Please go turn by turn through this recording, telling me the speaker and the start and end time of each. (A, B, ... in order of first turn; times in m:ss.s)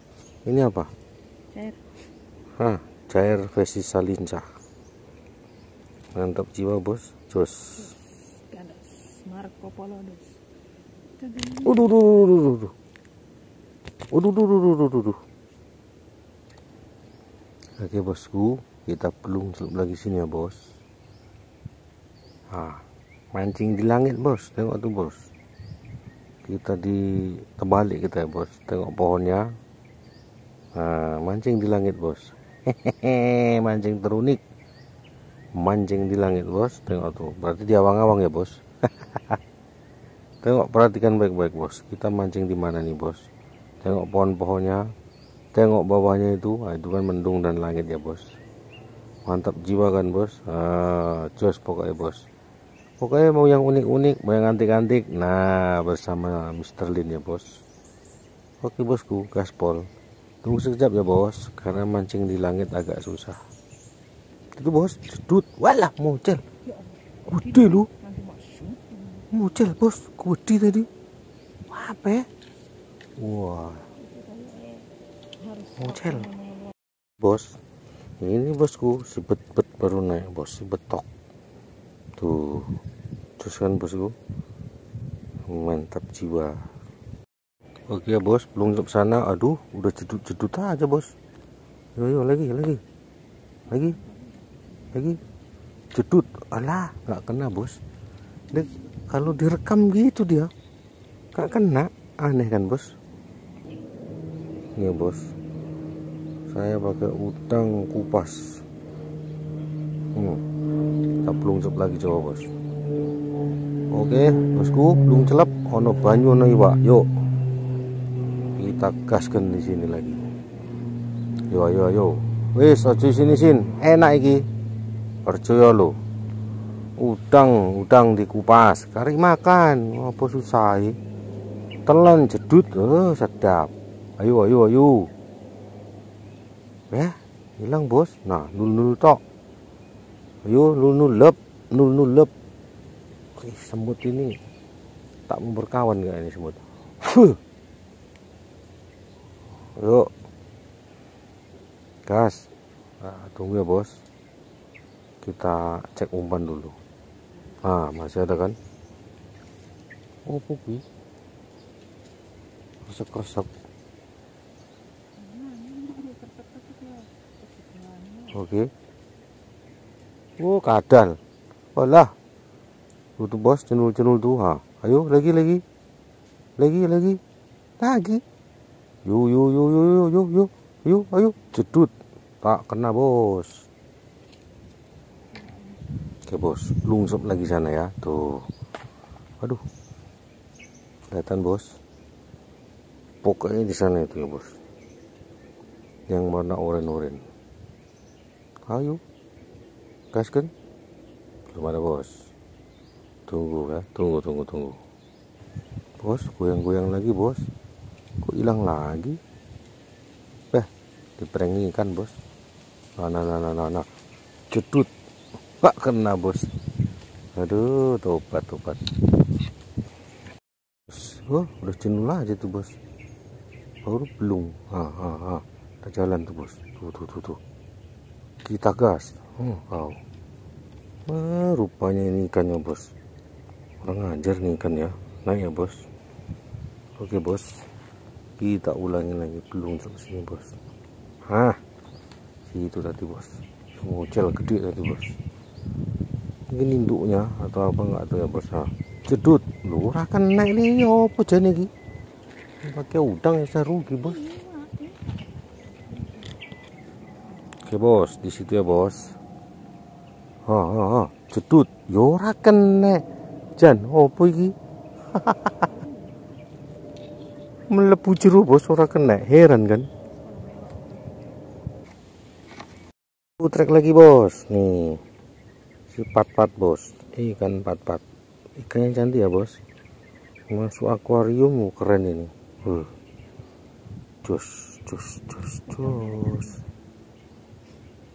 0:00.5-0:00.9 A
0:01.5-0:02.0 B
0:02.6-0:04.5 A
0:06.2-0:07.9 A
0:08.0-0:10.4 B
0:11.2-0:11.8 B
0:11.5-0:12.7 A
0:14.1-0:15.2 A
0:17.8-0:20.7 A
0:22.5-0:25.2 A
0:26.4-0:29.5 A
0:30.8-0:34.4 A
0:35.6-0:39.4 A
0:40.4-0:43.3 A
0:43.8-0:44.9 A
0:45.5-0:48.3 A
0:49.3-0:52.3 A
0:53.0-0:57.5 A
0:58.6-0:59.9 A
1:00.4-1:03.4 A
1:04.5-1:06.4 A
1:07.2-1:09.2 B
1:07.3-1:07.9 A
1:09.3-1:10.9 A
1:11.7-1:12.3 A
1:13.2-1:13.9 A
1:14.0-1:16.8 B
1:15.8-1:16.3 A
1:17.2-1:17.6 A
1:18.2-1:21.1 A
1:22.2-1:22.8 A
1:23.4-1:24.2 A
1:25.5-1:26.7 A
1:27.9-1:31.1 A
1:32.0-1:32.8 A
1:33.7-1:34.0 A
1:33.8-1:34.3 B
1:34.9-1:35.2 A
1:35.9-1:37.8 A
1:38.5-1:40.5 A
1:41.3-1:42.9 A
1:44.8-1:45.3 A
1:46.5-1:48.6 A
1:50.1-1:50.4 A
1:51.2-1:52.5 A
1:53.9-1:57.1 A
1:58.5-2:00.2 A
2:01.5-2:04.5 A
2:05.2-2:06.0 A
2:07.0-2:11.0 A
2:11.9-2:15.1 A
2:16.9-2:19.2 A
2:20.4-2:22.3 A
2:23.4-2:24.4 A
2:25.3-2:27.4 A
2:29.8-2:30.1 A
2:32.1-2:32.5 A
2:33.0-2:34.0 A
2:35.2-2:36.8 A
2:37.6-2:38.6 A
2:40.2-2:40.8 A
2:42.9-2:43.5 A
2:45.2-2:48.4 B
2:48.3-2:48.7 A
2:50.4-2:51.2 A
2:51.8-2:52.1 A
2:53.2-2:55.6 A
2:56.6-2:57.2 A
2:57.8-2:58.2 A
2:59.0-3:03.6 A
3:06.2-3:08.5 A
3:11.1-3:11.8 A
3:13.2-3:14.6 A
3:16.1-3:17.2 A
3:18.7-3:19.0 A
3:20.1-3:20.5 A
3:21.5-3:22.2 A
3:23.3-3:24.8 A
3:26.0-3:27.5 A
3:28.2-3:29.2 A
3:30.5-3:32.1 A
3:33.0-3:33.9 A
3:34.5-3:34.9 A
3:35.6-3:36.6 A
3:37.4-3:39.0 A
3:40.9-3:42.8 A
3:43.8-3:47.4 A
3:48.4-3:50.0 A
3:51.1-3:52.9 A
3:53.8-3:55.9 A
3:57.0-3:57.7 A
3:58.4-4:00.6 A
4:01.3-4:01.6 A
4:02.5-4:05.2 A
4:06.5-4:11.7 A
4:12.6-4:14.3 A
4:14.2-4:15.2 B
4:15.9-4:16.4 B
4:17.6-4:19.2 A
4:20.5-4:23.0 A
4:23.6-4:24.6 A
4:25.1-4:25.7 A
4:27.7-4:29.9 A
4:30.3-4:31.2 B
4:33.4-4:35.0 A
4:35.9-4:38.0 A
4:38.6-4:39.6 A
4:40.5-4:42.9 A
4:44.2-4:46.6 A
4:45.9-4:46.5 B